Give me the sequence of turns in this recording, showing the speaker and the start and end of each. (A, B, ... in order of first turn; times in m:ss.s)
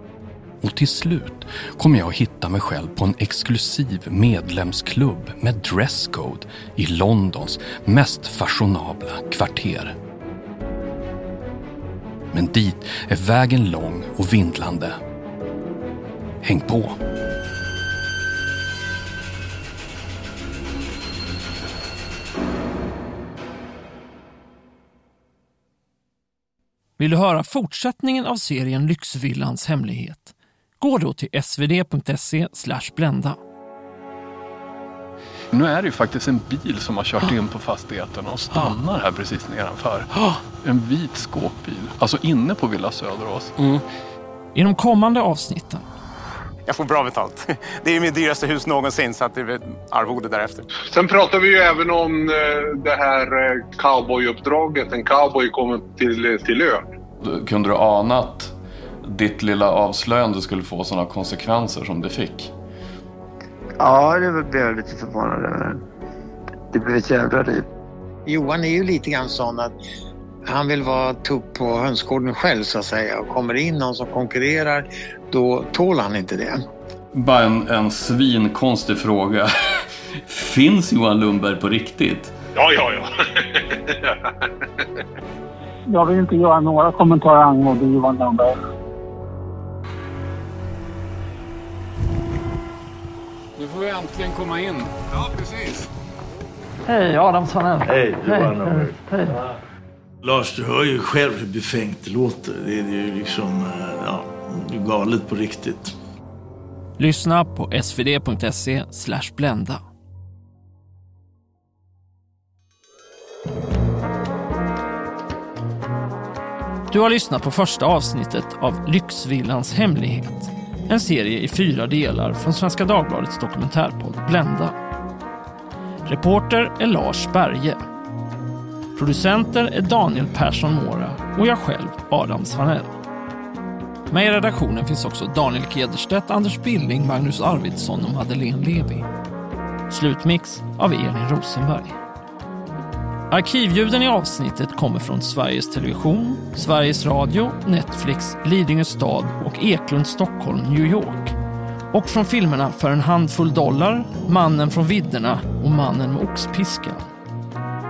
0:00.6-0:10.0 A
0:12.3-0:15.0 A
0:16.4-0:17.0 A
0:27.0-0:33.4 B
0:35.5-0:43.8 C
0:44.6-0:45.8 B
0:46.7-0:50.6 D
0:50.9-0:56.9 E
0:57.2-1:02.5 C
1:03.8-1:05.8 F
1:06.7-1:07.6 F
1:08.3-1:09.8 G
1:10.5-1:16.6 G
1:17.1-1:22.3 C
1:22.6-1:24.4 E
1:25.9-1:28.6 H
1:33.6-1:35.8 C
1:36.9-1:39.3 B
1:37.8-1:39.0 I
1:40.2-1:45.9 I
1:47.0-1:49.8 B
1:56.9-2:04.8 B
2:06.1-2:07.8 B
2:09.0-2:12.9 B
2:14.1-2:19.0 B
2:19.9-2:22.0 B
2:23.3-2:31.4 B
2:31.9-2:37.1 B